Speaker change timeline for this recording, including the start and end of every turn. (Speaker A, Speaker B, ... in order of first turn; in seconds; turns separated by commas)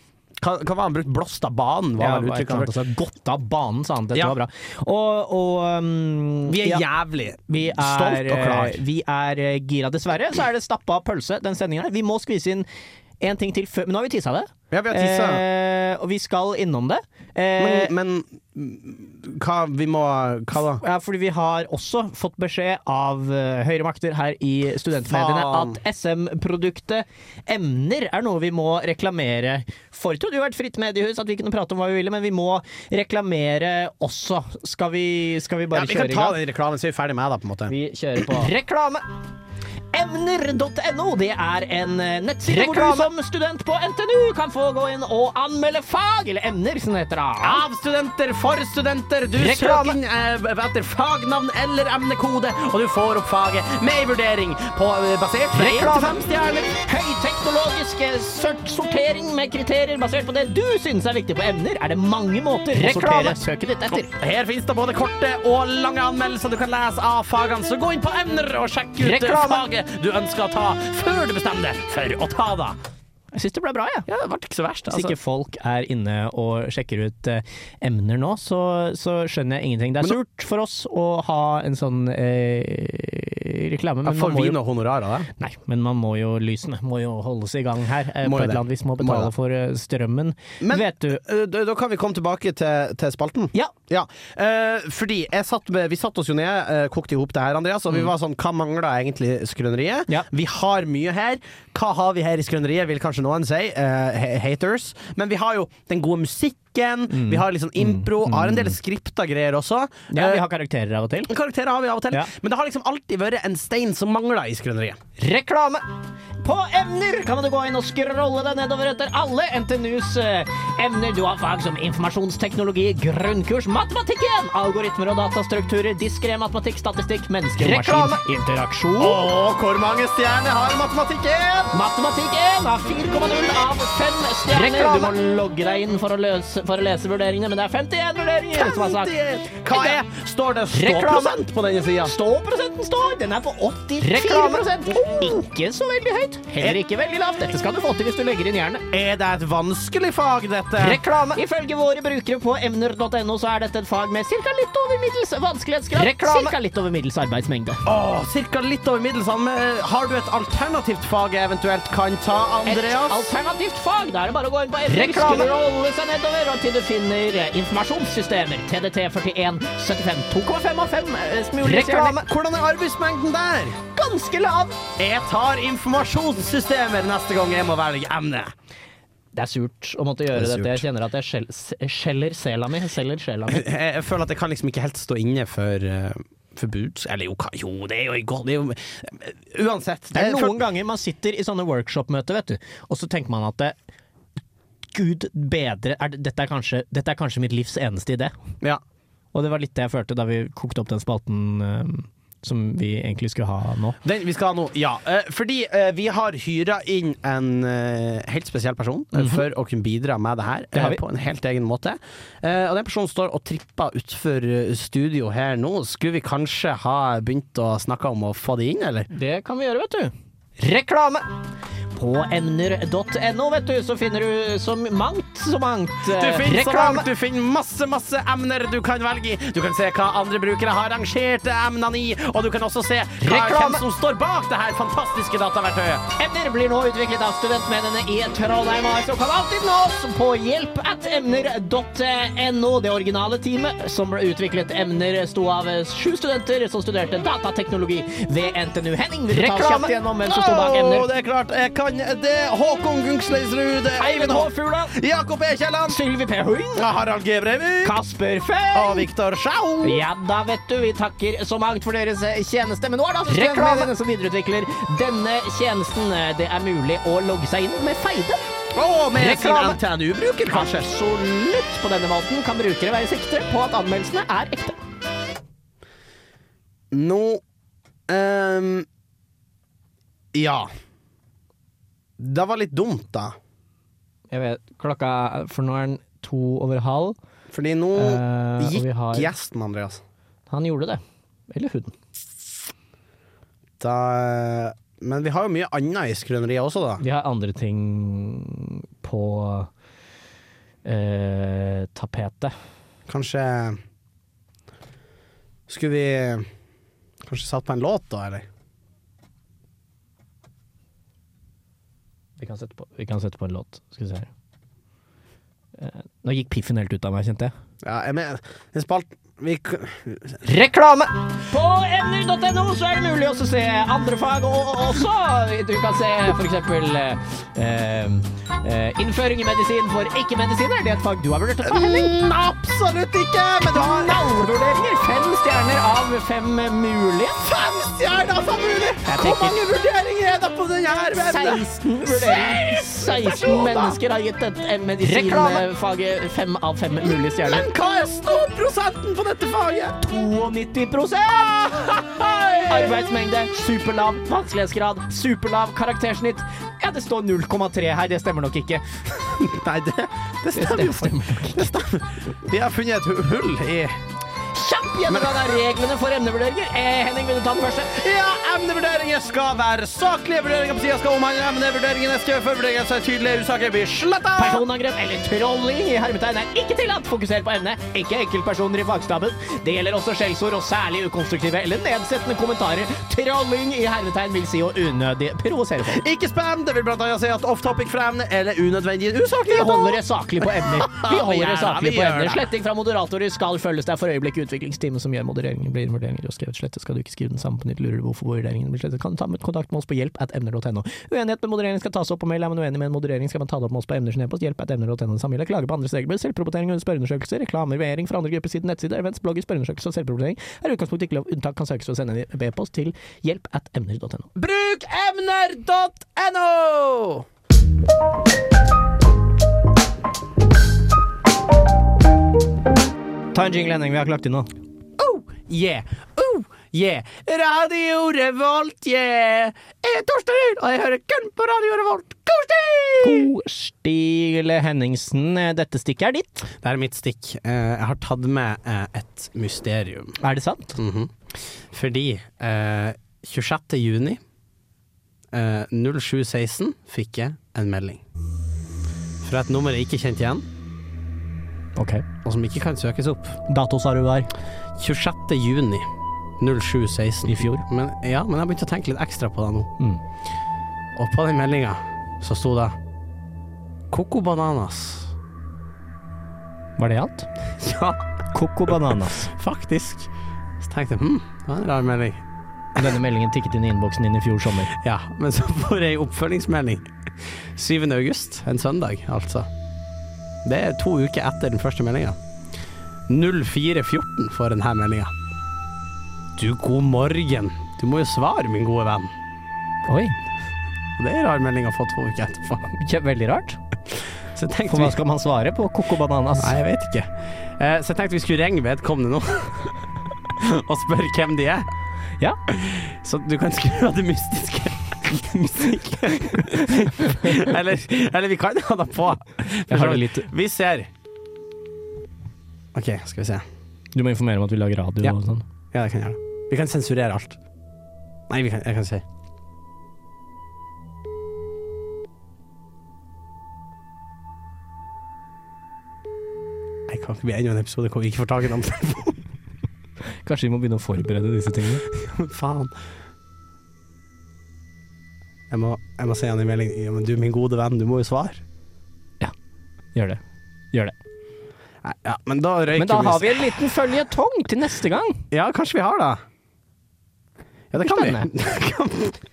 Speaker A: 0.4-2.8, Speaker B: 2.0-6.8, Speaker A: 6.5-8.8, Speaker B: 7.5-12.7, Speaker B: 13.2-17.9, Speaker A: 14.7-15.4, Speaker A: 17.6-20.8, Speaker B: 20.8-36.4, Speaker A: 25.1-25.8, Speaker A: 35.7-38.5, Speaker B: 37.7-39.0, Speaker B: 39.9-47.6, Speaker A: 42.5-43.1, Speaker A: 47.4-56.8, Speaker B: 49.4-50.0, Speaker B: 55.5-56.2, Speaker B: 56.8-64.1, Speaker A: 62.7-72.8, Speaker B: 69.0-69.7, Speaker B: 73.3-74.1, Speaker A: 74.1-75.2, Speaker B: 74.9-84.6, Speaker A: 84.0-85.3, Speaker B: 85.4-91.2, Speaker A: 88.2-89.3, Speaker A: 90.6-110.5, Speaker B: 107.1-108.8, Speaker B: 110.1-111.3, Speaker A: 111.3-115.0, Speaker B: 115.2-115.8, Speaker B: 116.4-129.2, Speaker A: 127.6-128.2, Speaker A: 129.0-131.8, Speaker B: 131.7-139.1, Speaker A: 134.5-135.2, Speaker A: 138.5-142.2, Speaker B: 139.7-140.0, Speaker B: 140.7-141.4, Speaker B: 142.0-148.8, Speaker A: 144.0-145.4, Speaker A: 148.9-151.3, Speaker B: 150.8-157.8, Speaker A: 155.9-156.6, Speaker A: 157.8-163.3, Speaker B: 162.7-172.3, Speaker A: 164.9-165.6, Speaker A: 171.6-173.8, Speaker B: 174.0-174.8, Speaker A: 175.0-178.5, Speaker B: 179.3-183.7, Speaker A: 180.3-180.8, Speaker A: 183.5-190.6, Speaker B: 190.1-193.7, Speaker B: 194.9-198.3, Speaker B: 199.3-204.0, Speaker A: 204.0-219.1, Speaker B: 209.2-209.4, Speaker B: 210.7-211.0, Speaker B: 219.1-221.3, Speaker B: 221.9-227.1, Speaker A: 226.0-236.1, Speaker B: 233.2-233.8, Speaker B: 236.2-251.1, Speaker A: 249.3-256.0, Speaker B: 254.0-254.9, Speaker B: 255.9-256.8, Speaker A: 256.8-258.0, Speaker B: 257.8-259.1, Speaker A: 258.7-260.1, Speaker B: 259.8-268.4, Speaker A: 263.2-263.9, Speaker A: 268.8-270.9, Speaker B: 269.2-269.8, Speaker B: 270.5-274.8, Speaker A: 276.9-277.4, Speaker A: 278.1-278.9, Speaker A: 280.3-280.7, Speaker A: 282.2-283.4, Speaker B: 284.3-287.2, Speaker A: 287.5-290.0, Speaker B: 288.0-289.3, Speaker B: 290.5-291.9, Speaker A: 293.8-297.0, Speaker B: 297.0-299.7, Speaker B: 300.9-302.5, Speaker A: 303.1-303.8, Speaker A: 305.7-306.5, Speaker A: 307.2-308.5, Speaker B: 312.4-314.3, Speaker B: 315.8-317.5, Speaker A: 317.8-320.4, Speaker B: 320.4-332.1, Speaker A: 331.6-334.3, Speaker B: 333.7-337.4, Speaker A: 337.4-344.0, Speaker B: 339.1-339.6, Speaker B: 341.2-347.7, Speaker A: 345.0-345.6, Speaker A: 347.1-350.0, Speaker B: 350.0-352.0, Speaker A: 351.9-353.0, Speaker B: 352.7-358.8, Speaker A: 359.1-364.0, Speaker B: 360.6-361.7, Speaker B: 364.5-368.0, Speaker A: 365.1-365.5, Speaker A: 367.8-374.6, Speaker B: 374.4-386.0, Speaker A: 385.9-392.5, Speaker B: 389.5-414.3, Speaker A: 414.4-417.2, Speaker B: 423.3-424.5, Speaker A: 425.0-433.3, Speaker B: 433.0-436.5, Speaker A: 436.5-440.2, Speaker B: 440.2-440.8, Speaker A: 440.8-441.1, Speaker A: 441.7-444.2, Speaker A: 445.3-448.0, Speaker A: 449.2-450.5, Speaker B: 451.8-452.1, Speaker A: 452.2-453.4, Speaker B: 453.5-454.3, Speaker A: 454.8-455.9, Speaker A: 456.4-459.7, Speaker B: 457.3-457.6, Speaker A: 461.0-462.8, Speaker A: 463.9-465.1, Speaker B: 466.8-467.3, Speaker A: 467.6-468.0, Speaker B: 468.3-469.3, Speaker A: 469.2-470.1, Speaker A: 470.6-472.2, Speaker B: 472.8-474.7, Speaker A: 474.7-476.8, Speaker A: 477.6-479.5, Speaker A: 480.4-482.2, Speaker A: 483.1-485.1, Speaker A: 486.4-489.1, Speaker B: 489.9-490.1, Speaker A: 491.0-492.6, Speaker B: 492.7-493.6, Speaker A: 494.3-495.0, Speaker B: 494.7-496.6, Speaker A: 496.4-499.8, Speaker A: 500.4-501.6, Speaker A: 502.5-510.9, Speaker B: 506.4-507.3, Speaker B: 509.7-510.3, Speaker A: 512.7-513.4, Speaker B: 513.9-515.4, Speaker A: 515.7-517.4, Speaker A: 518.3-519.0, Speaker A: 526.9-529.2, Speaker B: 530.2-531.9, Speaker A: 532.0-532.7, Speaker A: 535.5-538.4, Speaker B: 539.9-540.2, Speaker A: 541.8-543.5, Speaker B: 542.8-545.2, Speaker A: 545.3-546.2, Speaker A: 547.7-549.2, Speaker B: 547.8-548.3